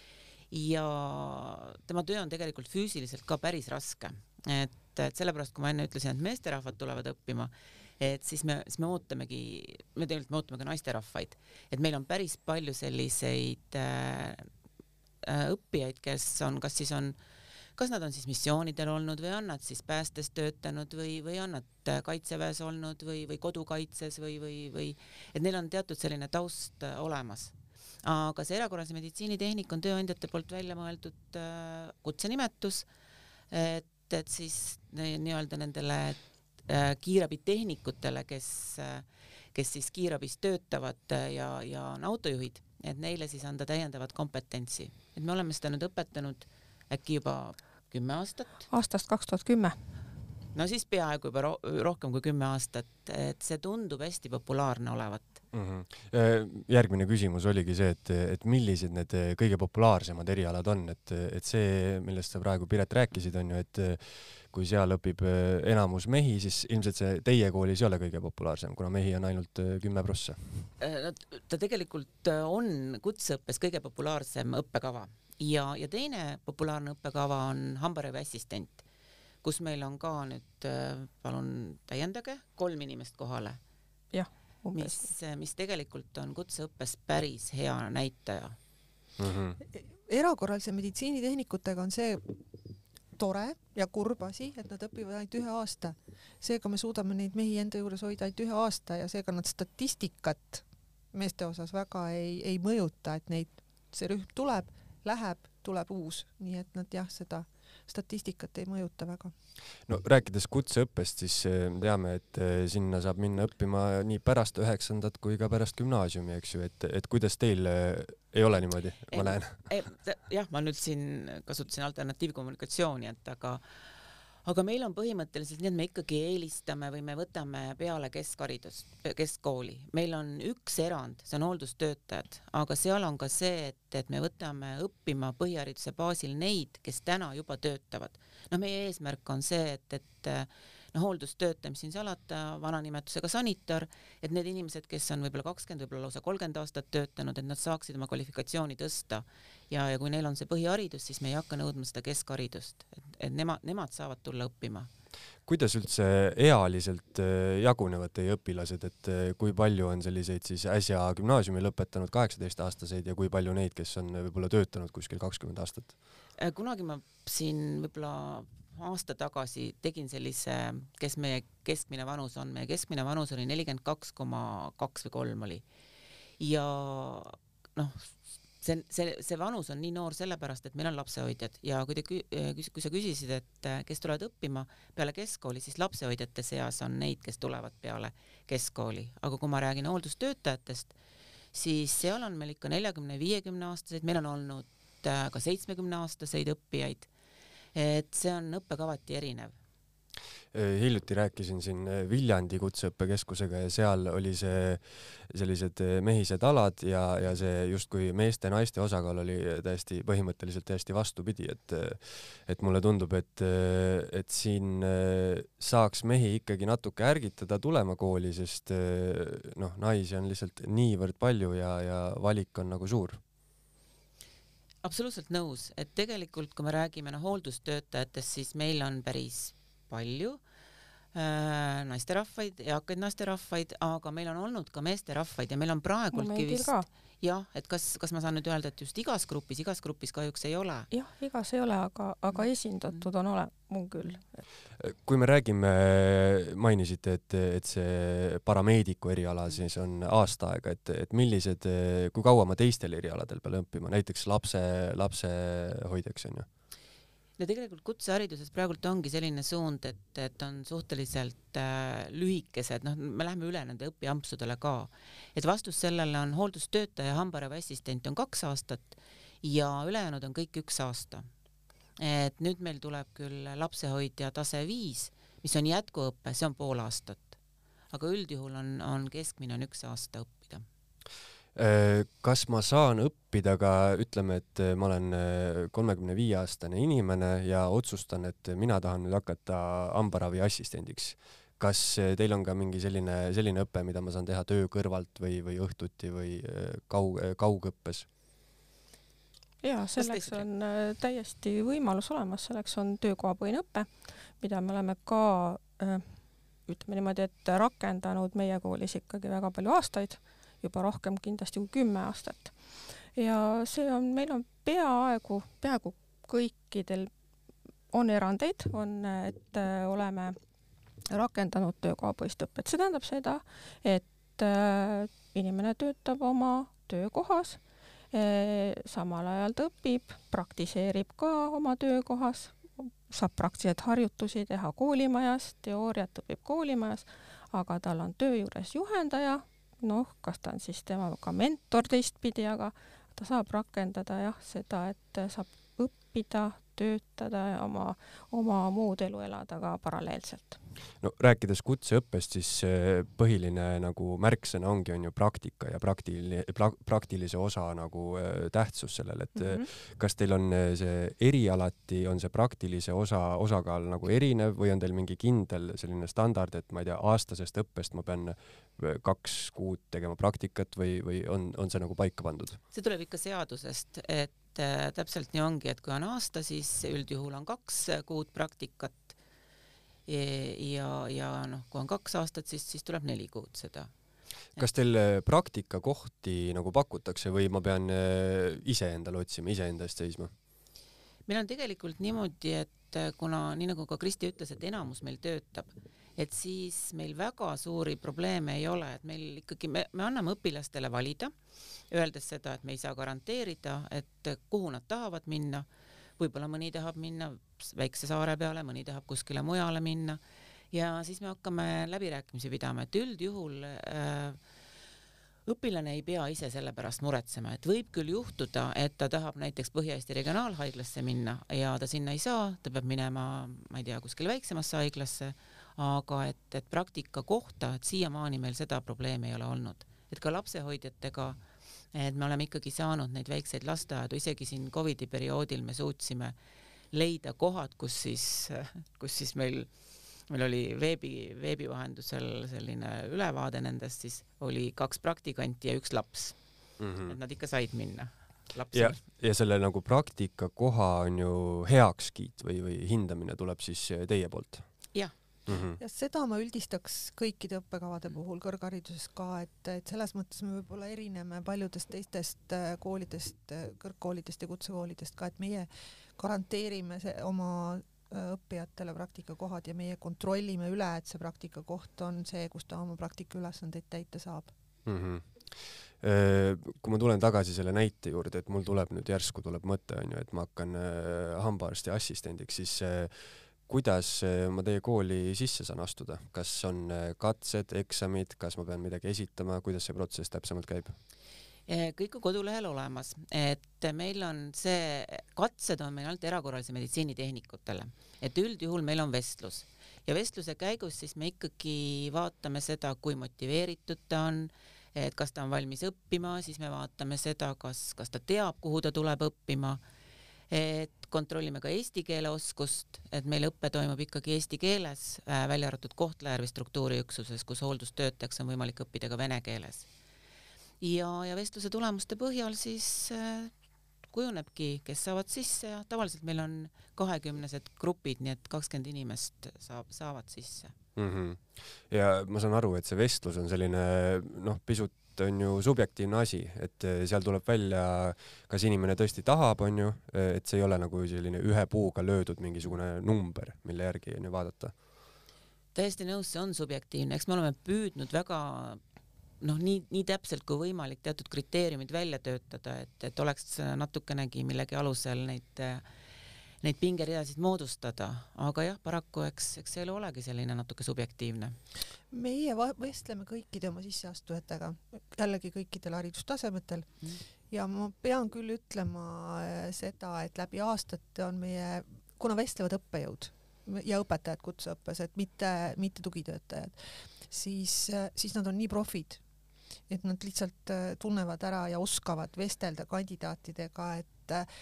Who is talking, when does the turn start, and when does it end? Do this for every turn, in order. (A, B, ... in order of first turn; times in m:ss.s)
0:00.5-0:14.5 A
0:15.2-0:17.2 A
0:17.8-0:32.9 A
0:33.5-0:48.6 A
0:48.7-0:49.8 B
0:50.5-0:55.4 A
0:55.5-1:10.7 C
1:10.8-1:18.8 A
1:19.4-1:23.6 A
1:24.1-1:25.1 B
1:24.8-1:28.6 A
1:29.2-1:29.6 C
1:29.8-1:32.4 D
1:33.2-1:49.3 D
1:49.9-1:59.5 C
1:59.1-2:03.6 A
2:04.4-2:34.9 A
2:35.5-2:45.9 C
2:46.4-2:55.6 A
2:56.4-3:11.0 A
3:11.5-3:17.1 A
3:17.8-3:19.6 A
3:20.5-3:43.2 C
3:44.8-3:50.4 A
3:51.1-4:00.9 A
3:56.1-3:56.9 B
4:00.9-4:04.4 B
4:04.8-4:16.5 C
4:17.4-4:31.3 A
4:32.0-4:37.4 A
4:37.9-4:40.6 A
4:41.6-4:58.1 C
4:59.6-5:12.6 B
5:00.0-5:00.4 A
5:13.1-5:17.1 B
5:17.9-5:20.4 B
5:21.1-5:27.6 B
5:28.1-5:50.6 B
5:51.0-6:12.6 C
6:12.7-6:19.2 A
6:20.1-6:23.9 A
6:24.6-6:30.3 C
6:31.3-6:41.3 A
6:41.9-6:45.7 A
6:46.2-6:50.2 A
6:50.7-6:54.4 A
6:55.5-7:11.4 A
7:11.9-7:16.4 A
7:16.9-7:19.7 A
7:20.3-7:26.4 A
7:26.8-7:27.2 C
7:27.1-7:29.0 A
7:28.7-7:34.7 C
7:35.5-7:35.8 C
7:35.8-7:54.5 D
7:54.9-8:11.0 C
8:11.7-8:29.8 A
8:30.5-8:39.9 A
8:40.8-8:43.5 A
8:44.1-8:50.8 A
8:51.0-9:04.7 C
9:05.8-9:08.8 A
9:09.4-9:15.8 A
9:16.6-9:21.6 A
9:22.1-9:26.9 D
9:27.5-9:36.7 D
9:37.3-9:39.2 D
9:39.9-9:44.5 D